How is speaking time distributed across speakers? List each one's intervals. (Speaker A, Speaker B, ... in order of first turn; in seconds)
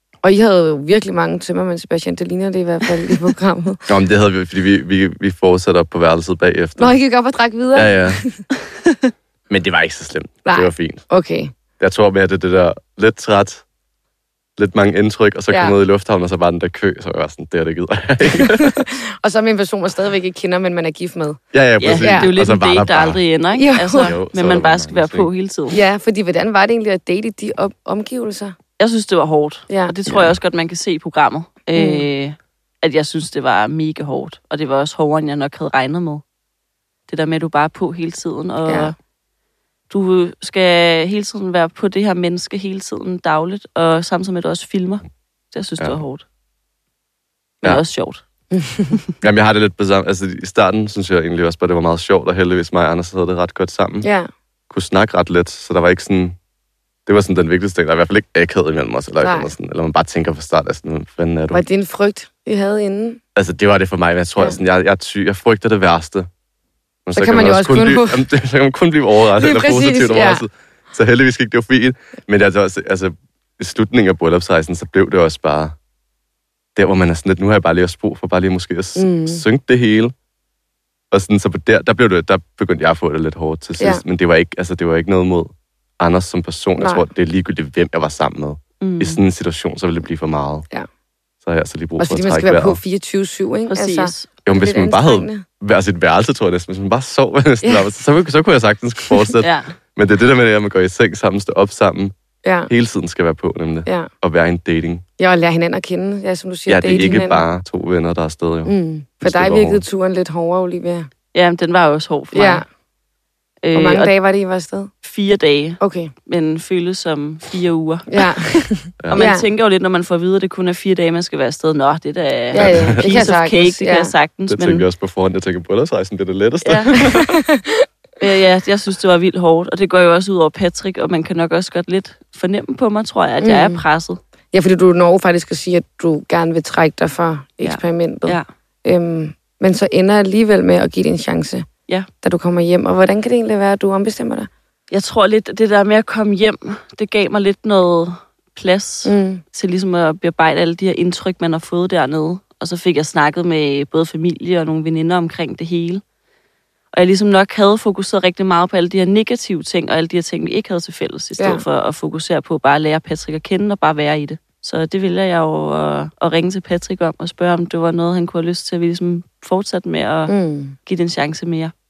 Speaker A: 0.2-3.8, 6.8-8.4, 10.5-11.5, 18.8-21.4, 23.6-24.1, 25.8-28.6, 29.7-29.9, 31.8-32.0, 38.6-38.9, 48.5-48.9, 54.0-54.3, 59.2-59.5, 61.5-63.2, 67.2-68.2, 69.4-70.5, 79.0-79.4, 86.8-87.0, 92.0-95.5, 102.5-102.7, 105.2-107.4, 108.7-111.1, 112.3-112.6, 113.8-114.9, 115.8-116.1, 118.1-119.5, 122.5-124.1, 127.0-127.9, 133.4-133.8, 134.5-141.7, 142.2-144.5, 149.1-149.4, 161.4-161.7, 170.3-170.8
Speaker B: 3.9-7.0, 7.7-8.2, 9.5-11.1, 11.8-13.6, 14.6-18.8, 21.5-23.2, 24.0-25.3, 30.1-30.4, 49.2-54.1, 54.7-56.4, 57.1-61.6, 63.4-66.3, 67.1-75.8, 76.8-80.1, 81.1-90.7, 91.4-92.8, 94.5-102.1, 102.7-105.0, 106.7-109.8, 122.5-123.1, 124.5-127.3
Speaker C: 21.8-25.8, 28.8-36.2, 37.1-38.9, 39.9-46.2, 47.6-48.2, 88.8-89.2, 93.7-94.3, 99.4-99.8, 111.3-112.6, 113.6-114.1, 115.0-124.9, 126.6-127.0, 128.2-134.2, 137.6-138.5, 144.9-156.0, 156.9-170.3, 170.9-171.7